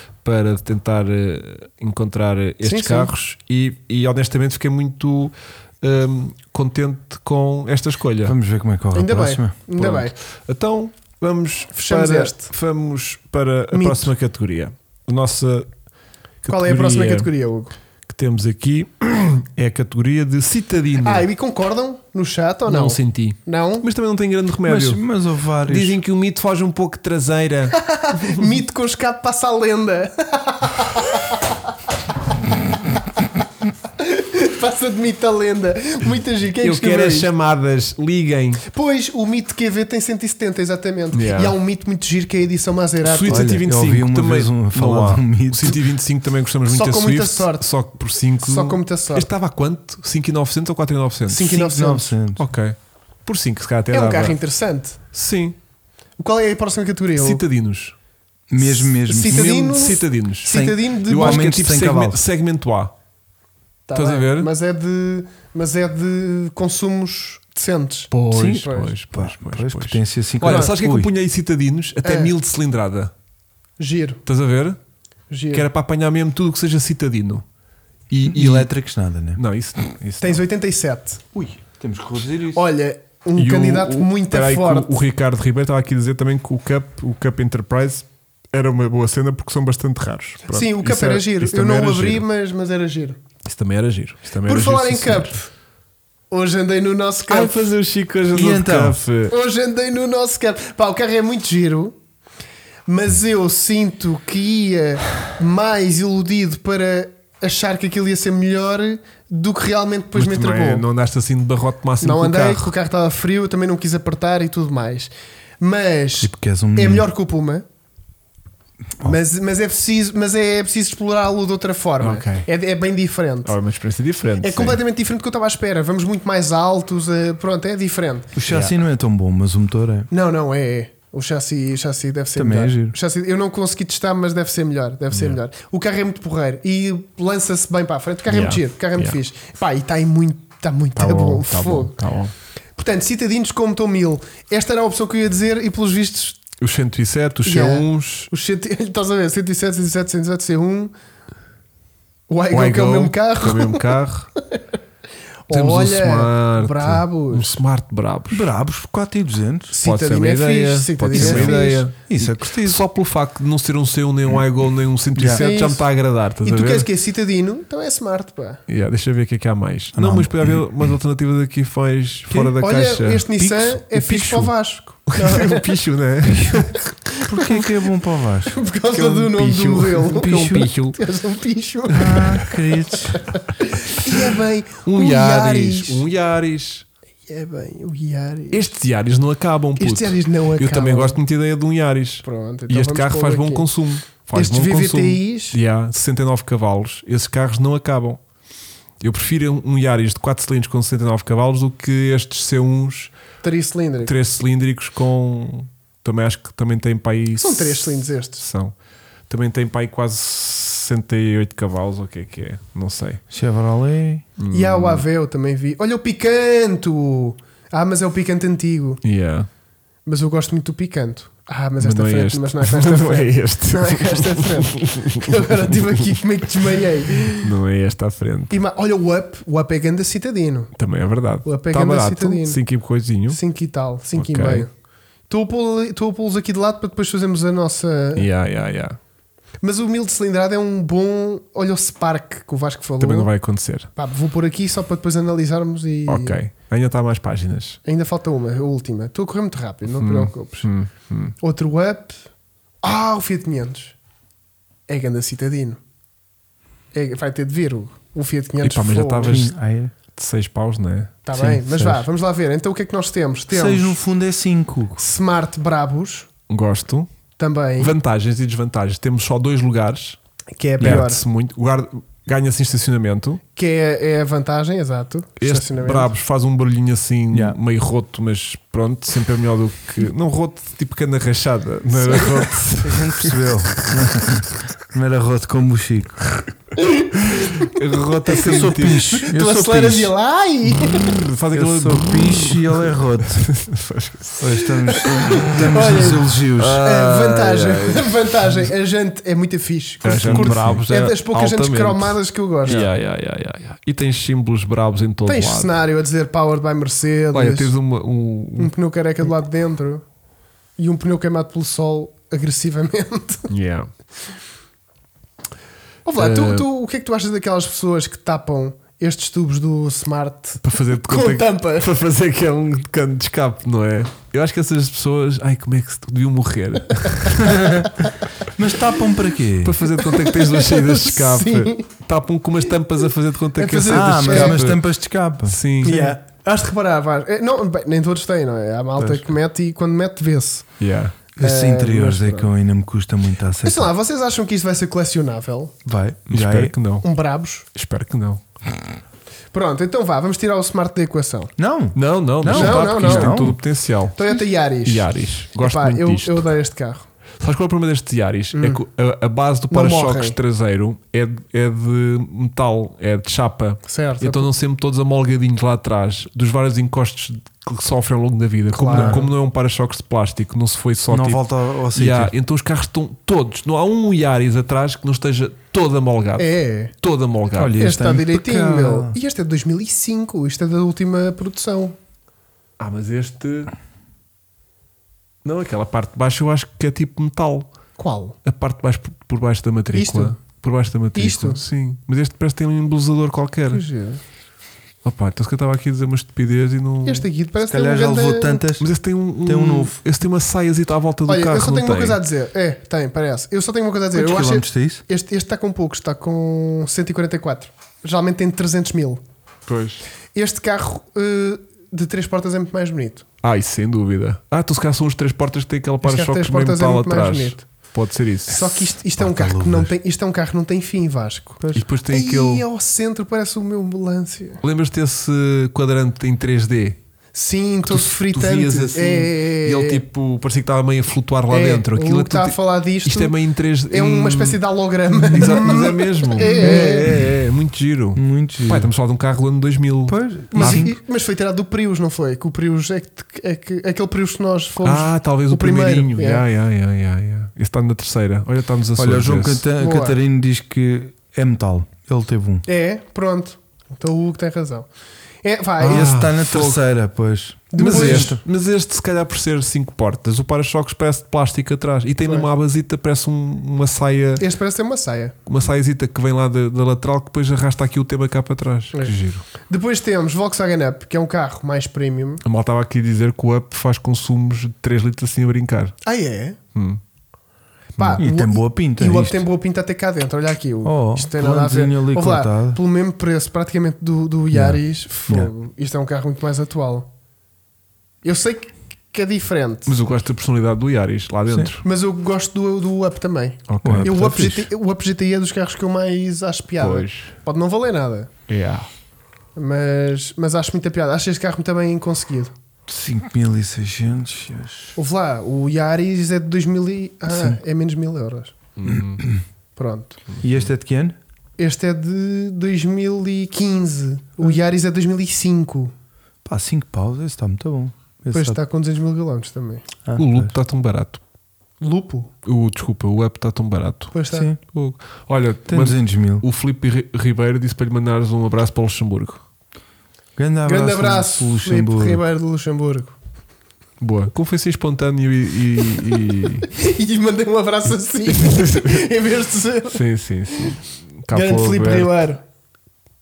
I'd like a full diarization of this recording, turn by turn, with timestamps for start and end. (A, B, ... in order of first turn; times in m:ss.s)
0:00.2-0:08.3 A
0:02.6-0:03.1 B
0:08.2-0:09.5 C
0:08.9-0:10.1 B
0:09.8-0:15.7 A
0:11.7-0:12.5 B
0:13.7-0:14.1 B
0:16.4-0:17.3 A
0:16.5-0:17.7 B
0:18.1-0:21.2 A
0:21.0-0:23.8 B
0:22.7-0:25.0 A
0:24.6-0:26.0 C
0:25.6-0:28.5 A
0:27.7-0:31.6 B
0:34.0-0:37.3 B
0:36.6-0:38.6 A
0:38.7-0:43.5 B
0:41.1-0:41.5 A
0:43.0-0:51.6 A
0:43.3-0:45.8 C
0:46.7-0:47.7 B
0:48.4-0:49.3 B
0:51.3-0:52.1 B
0:51.5-0:52.4 C
0:52.4-0:54.4 A
0:53.9-0:55.0 B
0:55.1-0:55.5 A
0:56.2-0:57.4 B
0:57.2-0:57.9 A
0:58.5-0:59.7 C
0:58.6-1:01.5 B
0:59.2-1:02.9 A
1:00.5-1:02.2 C
1:03.9-1:08.9 B
1:03.9-1:04.5 A
1:08.1-1:13.1 A
1:08.3-1:11.1 C
1:10.4-1:10.7 B
1:12.0-1:12.3 B
1:13.8-1:14.2 B
1:14.2-1:14.8 A
1:15.3-1:15.7 B
1:15.5-1:17.4 A
1:18.1-1:18.7 A
1:18.2-1:19.4 C
1:19.4-1:20.4 A
1:20.2-1:21.2 B
1:21.3-1:22.6 C
1:22.5-1:25.0 B
1:23.4-1:32.2 A
1:30.5-1:33.2 B
1:33.4-1:35.3 A
1:34.4-1:35.5 B
1:36.3-1:37.6 B
1:37.3-1:39.3 A
1:38.3-1:39.0 C
1:39.3-1:42.0 B
1:42.9-1:50.8 B
1:50.1-1:52.7 A
1:52.0-1:57.6 B
1:56.2-1:57.1 C
1:59.0-2:03.6 B
2:02.0-2:02.5 A
2:03.4-2:04.8 A
2:04.4-2:08.3 B
2:08.3-2:10.1 C
2:08.5-2:08.7 A
2:10.1-2:21.9 B
2:12.3-2:13.0 C
2:15.1-2:15.4 A
2:18.3-2:19.2 A
2:21.0-2:22.3 A
2:22.8-2:26.4 B
2:26.6-2:28.3 A
2:27.4-2:30.9 B
2:32.3-2:33.9 B
2:32.5-2:34.3 A
2:35.5-2:37.6 B
2:35.5-2:38.5 A
2:38.3-2:39.7 C
2:39.7-2:41.9 B
2:39.8-2:46.9 A
2:41.1-2:42.8 C
2:45.1-2:45.4 C
2:45.3-2:45.9 B
2:46.4-2:48.6 B
2:48.7-2:53.3 A
2:49.9-2:50.6 C
2:52.3-2:52.6 C
2:52.6-2:55.7 B
2:53.4-2:54.3 C
2:54.0-2:54.5 A
2:55.1-2:56.9 A
2:57.3-2:58.6 C
2:57.4-2:57.6 B
2:58.5-3:06.0 B
2:58.9-3:01.0 A
3:00.2-3:00.7 C
3:01.9-3:03.2 C
3:04.1-3:06.8 A
3:07.3-3:08.7 B
3:08.5-3:18.2 A
3:09.8-3:11.2 B
3:12.2-3:13.7 B
3:14.3-3:15.6 B
3:19.0-3:23.1 A
3:23.4-3:24.1 B
3:24.0-3:28.7 A
3:27.4-3:28.4 B
3:29.3-3:33.2 A
3:33.3-3:34.2 C
3:34.4-3:35.0 A
3:34.5-3:39.0 B
3:39.0-3:39.5 A
3:40.0-3:47.5 B
3:41.8-3:45.8 A
3:47.4-3:48.5 A
3:48.5-3:50.7 B
3:50.8-3:53.4 A
3:51.4-3:52.6 B
3:53.3-3:54.7 B
3:54.1-3:54.6 A
3:55.3-3:58.3 B
3:58.2-3:59.0 A
3:59.6-4:03.3 B
4:03.0-4:03.9 A
4:04.0-4:06.4 B
4:06.1-4:07.8 A
4:07.8-4:10.7 B
4:10.0-4:11.3 A
4:11.4-4:12.2 B
4:12.8-4:13.9 B
4:14.9-4:15.8 B
4:16.9-4:19.4 B
4:18.6-4:19.5 A
4:19.2-4:19.9 C
4:20.2-4:21.2 A
4:21.2-4:24.0 B
4:21.3-4:22.1 C
4:23.5-4:25.0 C
4:25.0-4:26.3 B
4:26.5-4:27.1 A
4:27.4-4:27.9 B
4:27.8-4:30.2 A
4:30.5-4:31.2 B
4:30.8-4:33.4 A
4:33.5-4:36.1 B
4:35.4-4:44.0 A
4:37.3-4:37.6 C
4:42.0-4:42.5 B
4:42.8-4:46.3 C
4:46.8-4:47.7 B
4:47.3-4:49.2 A
4:48.3-4:51.2 B
4:48.3-4:50.1 C
4:50.8-4:53.5 C
4:51.0-4:54.4 A
4:54.4-4:56.8 C
4:54.8-5:02.8 B
4:55.5-4:58.1 A
5:00.0-5:05.7 A
5:00.1-5:00.8 C
5:02.6-5:02.9 C
5:05.2-5:07.7 B
5:07.3-5:08.7 A
5:08.6-5:10.0 B
5:10.8-5:13.5 B
5:13.5-5:13.9 A
5:16.0-5:21.9 B
5:16.2-5:16.6 A
5:20.6-5:27.5 A
5:27.0-5:28.4 B
5:27.4-5:29.8 C
5:29.6-5:34.8 A
5:30.0-5:31.9 B
5:33.6-5:34.6 B
5:33.9-5:36.2 C
5:35.4-5:35.9 A
5:35.8-5:40.7 B
5:39.0-5:39.3 C
5:40.8-5:41.2 A
5:41.4-5:43.9 C
5:41.4-5:42.5 B
5:43.6-5:45.7 B
5:45.8-5:46.7 C
5:46.3-5:47.0 A
5:47.0-5:47.6 B
5:47.7-5:48.4 A
5:49.5-5:51.5 B
5:51.6-5:53.6 C
5:51.9-5:56.5 A
5:52.5-5:53.5 B
5:54.1-5:57.0 B
5:57.4-6:11.4 A
5:58.5-5:58.8 B
5:59.7-6:00.4 B
6:03.8-6:04.5 B
6:08.7-6:09.3 B
6:08.9-6:09.2 C
6:11.1-6:12.3 C
6:11.9-6:17.8 A
6:16.4-6:16.9 B
6:17.5-6:19.2 C
6:17.8-6:22.0 B
6:22.8-6:23.7 A
6:25.4-6:27.7 A
6:28.0-6:28.3 B
6:28.4-6:33.8 A
6:29.9-6:30.4 B
6:31.1-6:31.6 B
6:33.7-6:34.2 B
6:35.0-6:37.2 A
6:37.0-6:38.6 B
6:37.7-6:38.9 C
6:38.8-6:42.2 A
6:39.4-6:39.9 C
6:41.3-6:49.2 B
6:44.1-6:45.0 C
6:49.7-6:50.0 A
6:50.3-6:53.2 B
6:53.4-6:58.9 A
6:56.0-6:57.6 B
6:58.5-7:04.6 B
6:59.2-6:59.9 C
7:01.6-7:01.8 C
7:01.7-7:02.6 A
7:04.6-7:07.0 A
7:07.3-7:10.0 B
7:07.9-7:14.6 A
7:11.5-7:13.4 B
7:13.9-7:17.1 B
7:15.2-7:20.8 A
7:16.6-7:17.2 C
7:18.2-7:18.9 C
7:20.1-7:21.0 C
7:20.5-7:26.4 B
7:24.8-7:29.6 A
7:29.0-7:32.6 C
7:29.8-7:30.2 B
7:32.6-7:34.9 B
7:35.4-7:36.1 B
7:35.8-7:36.8 A
7:35.8-7:38.4 C
7:37.7-7:38.4 B
7:37.8-7:44.4 A
7:42.2-7:42.5 B
7:44.4-7:45.4 B
7:45.4-7:49.5 A
7:48.9-7:52.4 B
7:52.4-7:56.0 A
7:56.0-7:56.6 B
7:56.7-7:57.0 A
7:58.0-8:07.1 B
7:58.0-7:59.4 C
8:00.8-8:02.8 C
8:04.5-8:05.5 C
8:08.2-8:09.9 B
8:09.8-8:11.8 A
8:11.8-8:18.3 B
8:13.7-8:14.6 A
8:13.8-8:14.6 C
8:16.8-8:17.3 A
8:18.5-8:18.9 A
8:19.6-8:22.5 B
8:22.9-8:25.0 C
8:25.0-8:28.5 B
8:27.3-8:27.6 C
8:28.8-8:29.2 A
8:28.9-8:29.4 C
8:29.8-8:30.2 B
8:30.4-8:31.2 C
8:31.6-8:35.9 B
8:36.4-8:38.6 C
8:38.3-8:39.8 B
8:40.0-8:40.5 C
8:40.2-8:41.2 A
8:41.8-8:42.3 B
8:42.4-8:49.4 A
8:44.1-8:44.5 B
8:44.3-8:44.6 C
8:45.7-8:46.4 C
8:50.4-8:52.2 C
8:50.6-8:53.2 B
8:54.0-8:56.7 A
8:56.7-9:00.0 B
8:58.2-8:59.1 A
8:59.9-9:02.1 A
9:01.3-9:02.4 B